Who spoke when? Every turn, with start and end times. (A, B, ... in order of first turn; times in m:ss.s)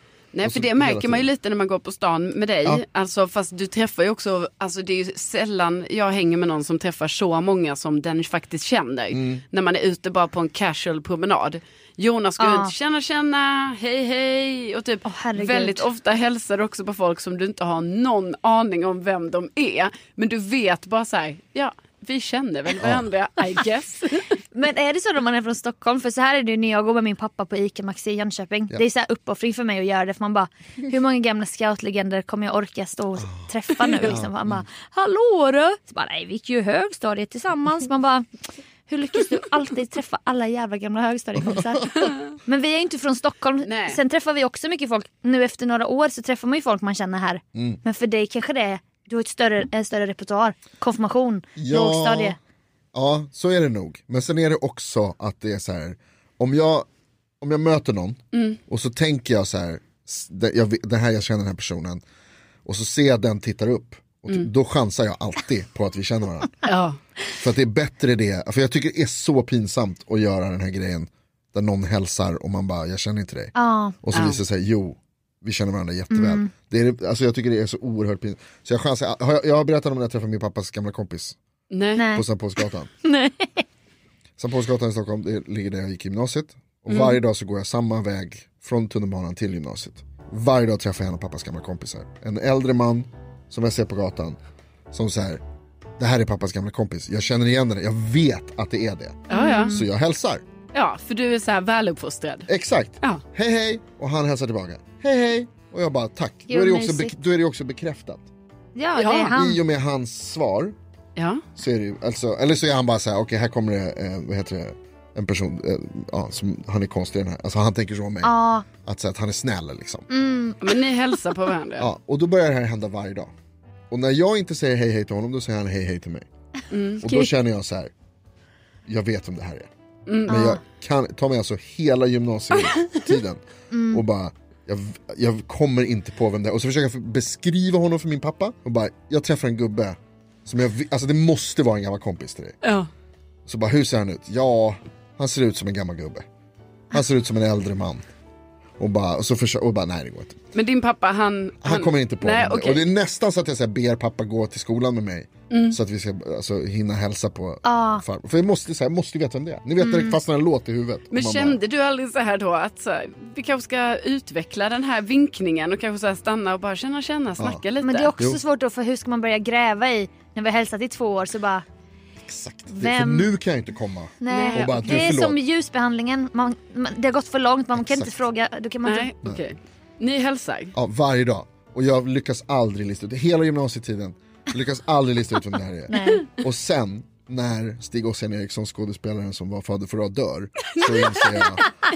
0:00.3-0:24.4 A
0:00.4-0:01.3 B
0:09.1-0:09.4 B
0:12.4-0:12.7 C
0:15.0-0:15.9 C
0:22.8-0:23.1 B
0:24.5-0:38.2 C
0:33.8-0:34.1 A
0:34.0-0:34.6 B
0:38.9-0:52.4 C
0:41.4-0:42.1 B
0:43.6-0:44.0 A
0:47.5-0:47.8 B
0:51.6-0:52.4 B
0:52.9-0:56.9 B
0:57.4-1:02.0 B
0:58.3-0:58.6 A
1:02.6-1:06.6 B
1:06.6-1:07.0 A
1:07.3-1:21.4 B
1:13.6-1:14.0 C
1:14.1-1:14.4 A
1:16.1-1:16.5 C
1:21.7-1:22.0 A
1:22.0-1:22.2 C
1:22.1-1:22.9 B
1:23.0-1:23.6 C
1:24.4-1:34.4 B
1:26.9-1:27.2 A
1:34.9-1:35.4 B
1:36.0-1:40.4 B
1:39.3-1:39.8 C
1:39.3-1:39.7 A
1:40.7-1:42.5 A
1:42.5-1:48.2 B
1:46.5-1:47.1 C
1:48.8-1:49.6 C
1:49.0-1:49.4 A
1:49.3-1:50.8 B
1:51.2-1:51.4 A
1:51.6-1:58.3 B
1:58.2-1:58.7 C
1:58.8-2:00.1 B
2:00.1-2:00.6 C
2:00.6-2:01.9 A
2:01.8-2:03.3 B
2:03.9-2:06.3 B
2:06.7-2:07.2 A
2:07.0-2:07.9 B
2:08.8-2:09.7 B
2:10.1-2:10.5 A
2:10.2-2:22.6 B
2:10.3-2:10.6 C
2:13.7-2:14.0 C
2:22.6-2:22.9 A
2:23.4-2:26.2 B
2:26.9-2:28.0 B
2:28.8-2:30.4 B
2:30.5-2:32.8 A
2:31.6-2:41.6 B
2:35.5-2:35.8 A
2:37.6-2:38.0 C
2:39.8-2:40.1 C
2:41.1-2:48.1 A
2:47.4-2:47.6 B
2:47.8-2:51.6 C
2:52.2-2:55.4 B
2:52.7-2:53.3 C
2:54.2-2:59.1 C
2:54.3-2:55.2 A
2:57.8-2:58.1 B
2:58.8-3:00.7 A
3:00.8-3:11.7 B
3:05.9-3:06.3 C
3:10.7-3:11.6 A